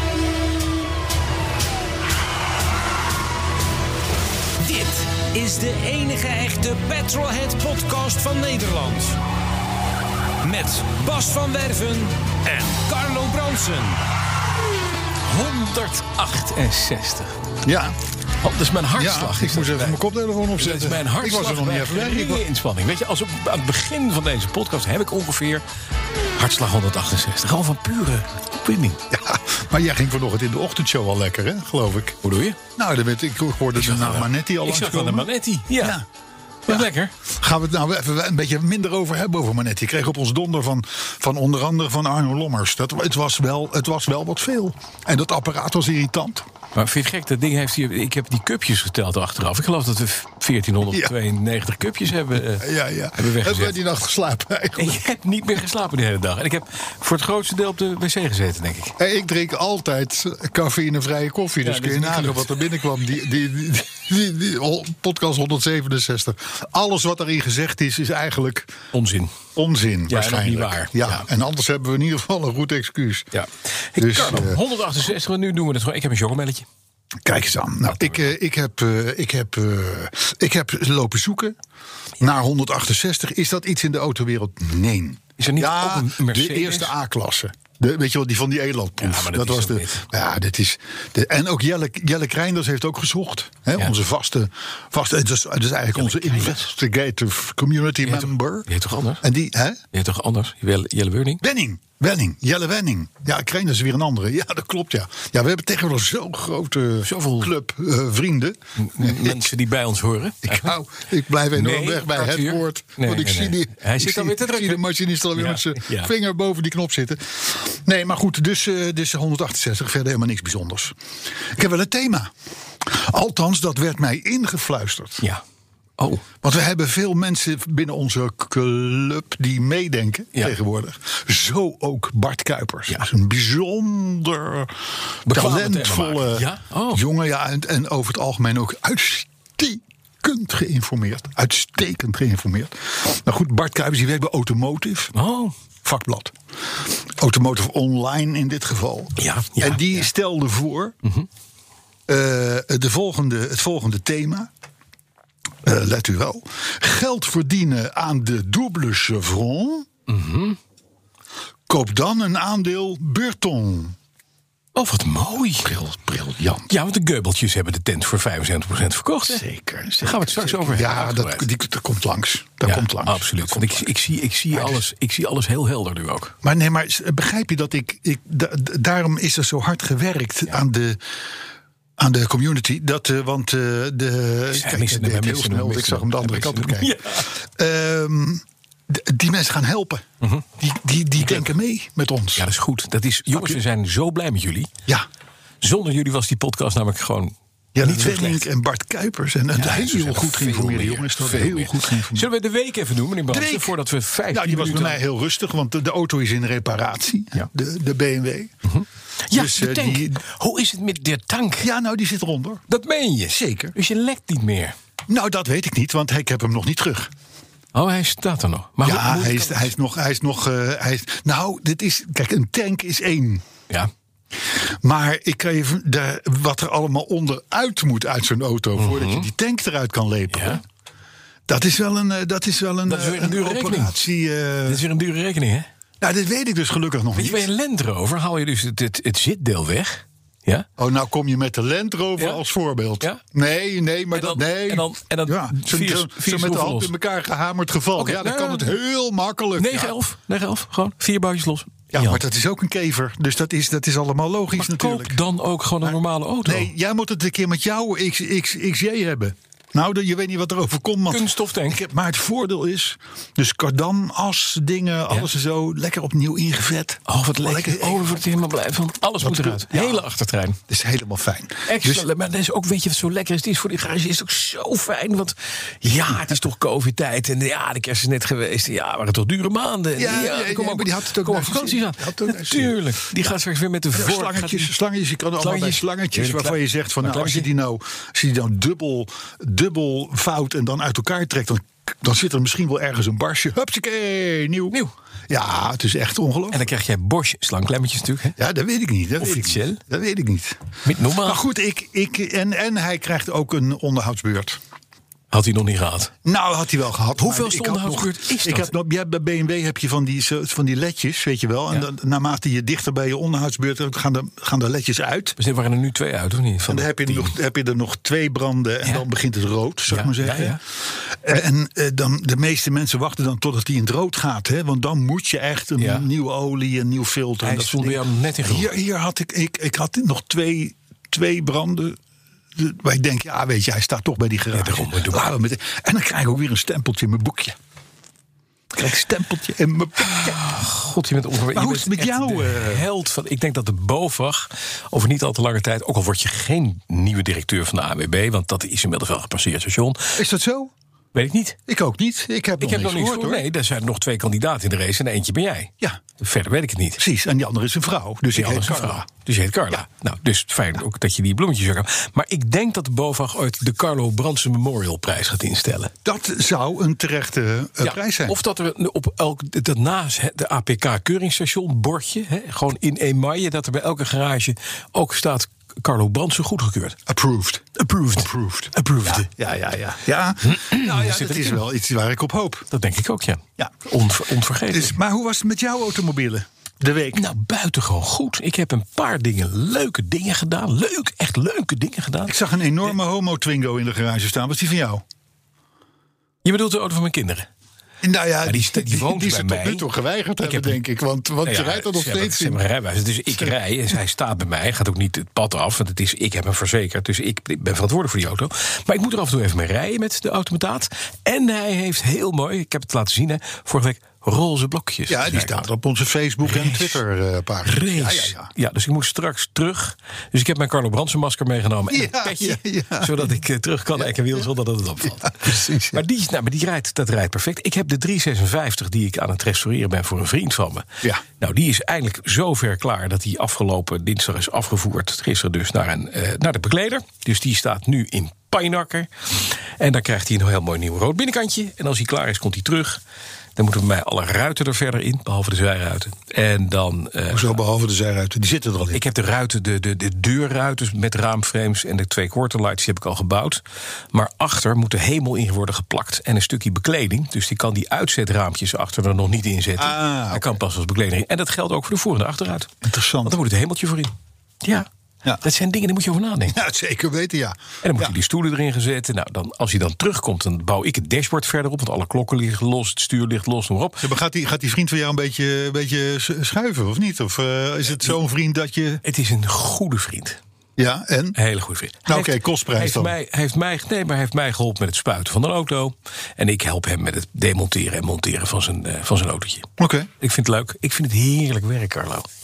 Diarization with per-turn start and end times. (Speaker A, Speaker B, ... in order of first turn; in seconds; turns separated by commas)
Speaker A: 4.6-9.2, Speaker A: 10.4-14.0, Speaker B: 15.2-17.3, Speaker C: 17.6-17.9, Speaker B: 18.4-20.0, Speaker C: 18.9-22.4, Speaker B: 20.6-25.6, Speaker B: 26.4-29.0, Speaker C: 29.1-32.2, Speaker B: 32.2-32.6, Speaker C: 32.8-36.0, Speaker B: 33.8-36.0, Speaker B: 36.7-37.1, Speaker C: 36.7-46.5, Speaker B: 46.8-53.8, Speaker C: 52.6-55.0, Speaker B: 54.8-59.0, Speaker C: 59.0-68.7, Speaker B: 61.6-62.6, Speaker B: 68.9-69.4, Speaker C: 69.6-73.3, Speaker B: 70.1-71.3, Speaker B: 73.3-76.7, Speaker C: 74.0-74.6, Speaker C: 77.2-81.6, Speaker B: 77.9-78.2, Speaker C: 82.2-98.7, Speaker B: 85.4-87.0, Speaker B: 89.0-90.1, Speaker B: 95.9-96.7, Speaker B: 98.0-99.2, Speaker C: 99.2-99.8, Speaker B: 99.9-101.4, Speaker C: 101.4-109.5, Speaker B: 107.0-107.5, Speaker B: 108.8-110.8, Speaker C: 110.4-122.3, Speaker B: 111.5-114.8, Speaker B: 115.3-116.1, Speaker C: 122.8-125.3, Speaker B: 126.0-126.2, Speaker C: 126.4-134.8, Speaker B: 135.3-137.0, Speaker C: 135.3-145.1, Speaker B: 145.1-145.5, Speaker C: 145.8-150.9, Speaker B: 149.2-150.1, Speaker C: 152.1-154.5, Speaker C: 155.6-159.9, Speaker B: 160.1-160.6, Speaker C: 161.7-164.0, Speaker B: 164.8-165.8, Speaker C: 165.7-166.7, Speaker B: 166.7-169.4, Speaker C: 169.2-173.9, Speaker B: 170.0-171.5, Speaker B: 172.7-176.3, Speaker C: 174.5-174.9, Speaker C: 176.4-181.0, Speaker C: 182.0-190.0, Speaker B: 184.5-187.3, Speaker B: 190.2-190.5, Speaker C: 190.6-192.5, Speaker B: 191.2-191.5, Speaker B: 192.4-194.7, Speaker C: 193.3-193.6, Speaker B: 195.6-198.5, Speaker C: 197.8-202.3, Speaker B: 199.6-205.0, Speaker C: 203.3-203.8, Speaker C: 204.3-208.5, Speaker B: 208.7-211.7, Speaker C: 209.3-210.2, Speaker C: 211.6-212.6, Speaker B: 212.7-214.8, Speaker C: 213.3-213.8, Speaker C: 215.1-217.1, Speaker B: 217.7-219.7, Speaker C: 218.8-223.4, Speaker C: 224.4-230.6, Speaker B: 228.8-229.3, Speaker B: 230.3-230.6, Speaker C: 231.5-234.8, Speaker B: 232.9-234.1, Speaker B: 234.7-235.7, Speaker C: 236.0-237.5, Speaker B: 237.2-240.7, Speaker C: 240.8-249.9, Speaker B: 244.1-246.9, Speaker B: 248.0-248.8, Speaker B: 249.6-252.2, Speaker C: 251.9-255.2, Speaker B: 254.6-256.7, Speaker C: 255.8-268.1, Speaker B: 261.1-261.8, Speaker B: 267.1-270.6, Speaker C: 269.2-270.1, Speaker C: 270.7-272.1, Speaker B: 271.7-284.7, Speaker C: 280.0-282.8, Speaker C: 283.9-294.8, Speaker B: 285.4-287.5, Speaker C: 295.3-296.6, Speaker B: 296.5-298.4, Speaker C: 298.4-300.6, Speaker B: 299.2-299.8, Speaker B: 300.8-301.4, Speaker C: 301.2-304.6, Speaker B: 305.3-306.1, Speaker C: 306.2-315.4, Speaker B: 307.2-308.7, Speaker B: 315.4-317.4, Speaker C: 316.7-332.0, Speaker B: 319.9-320.6, Speaker B: 325.8-326.1, Speaker B: 327.4-328.7, Speaker C: 332.6-337.6, Speaker B: 334.5-335.3, Speaker C: 338.7-340.5, Speaker B: 340.0-350.2, Speaker C: 341.5-342.9, Speaker C: 350.1-350.7, Speaker B: 351.1-351.6, Speaker C: 351.7-353.5, Speaker B: 352.6-357.0, Speaker C: 357.0-359.1, Speaker B: 358.3-365.9, Speaker C: 366.1-368.4, Speaker B: 367.8-377.0, Speaker C: 377.1-382.7, Speaker B: 377.8-378.3, Speaker B: 380.4-381.6, Speaker B: 382.7-384.9, Speaker C: 384.7-387.3, Speaker B: 387.1-392.9, Speaker C: 392.3-395.0, Speaker B: 396.4-397.5, Speaker C: 398.0-402.6, Speaker B: 398.4-399.9, Speaker B: 400.4-400.8, Speaker B: 401.4-415.7, Speaker C: 415.1-418.5, Speaker B: 416.4-417.0, Speaker B: 417.6-430.9, Speaker C: 421.9-423.4, Speaker C: 425.0-426.0, Speaker B: 431.4-443.0, Speaker B: 443.6-447.6, Speaker C: 447.3-449.0, Speaker B: 448.9-462.7, Speaker C: 459.8-460.6, Speaker C: 462.8-463.4, Speaker B: 463.2-464.9, Speaker B: 465.4-466.6, Speaker C: 466.5-468.2, Speaker B: 467.8-474.1, Speaker C: 474.0-479.0, Speaker B: 479.0-480.4, Speaker C: 480.8-481.4, Speaker B: 481.4-489.7, Speaker C: 482.1-483.1, Speaker C: 489.8-490.1, Speaker B: 490.2-492.3